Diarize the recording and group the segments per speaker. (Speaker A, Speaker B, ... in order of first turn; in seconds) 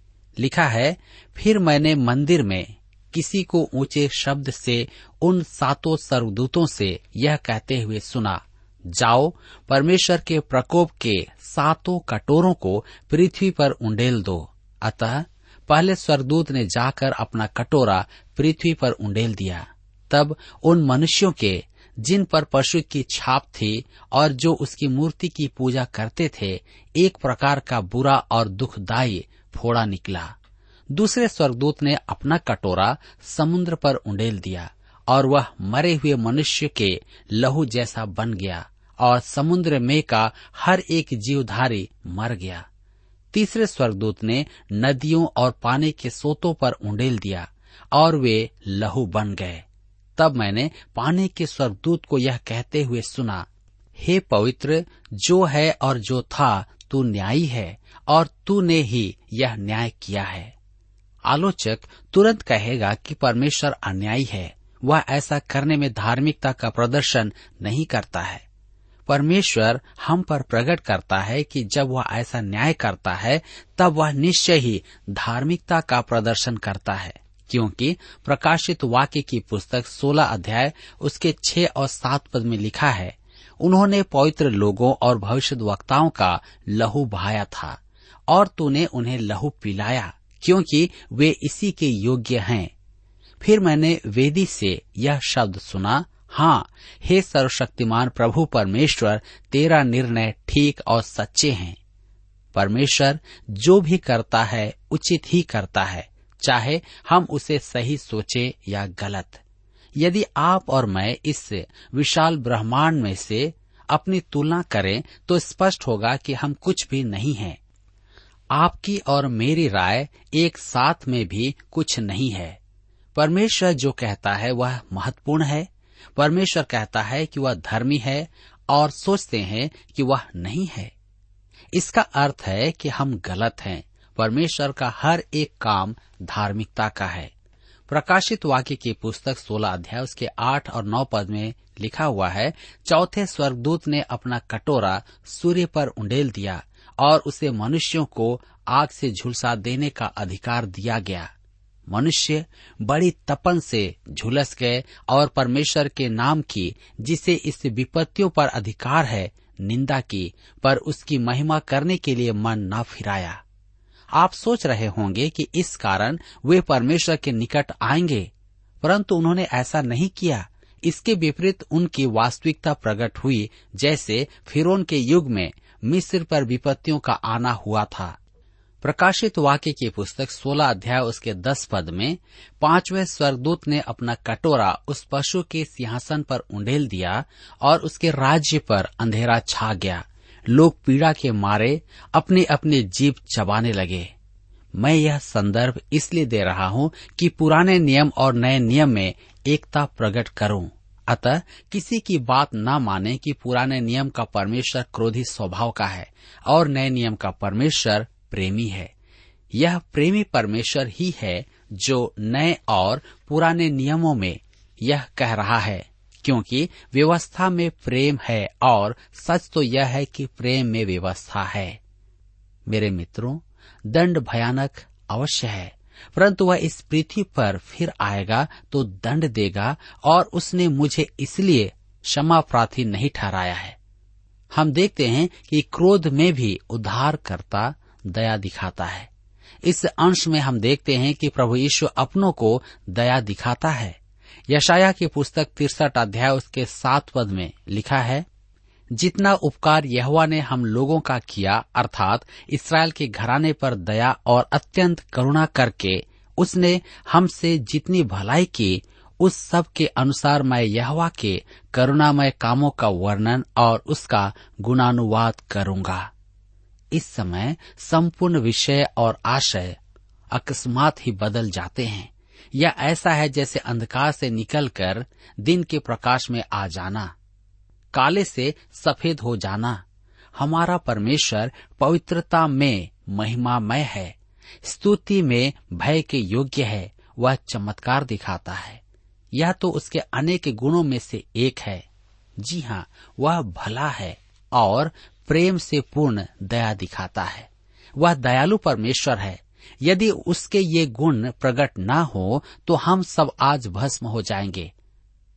Speaker A: 0.4-30.3, 30.9-42.6, 43.3-49.6, 50.2-60.5, 61.2-68.4, 69.1-92.7, 93.4-101.8, 102.5-109.4, 110.0-117.6, 118.5-122.6, 123.2-130.9, 131.7-137.3, 137.9-151.3, 151.9-163.4, 164.2-168.3, 168.8-178.2, 178.8-194.1, 194.8-208.9, 209.5-221.8, 222.7-233.8, 234.5-239.1, 239.6-244.0, 244.5-248.2, 249.0-266.1, 266.9-269.8, 270.3-277.1, 277.9-279.8, 280.4-288.8, 289.3-291.8, 292.4-304.7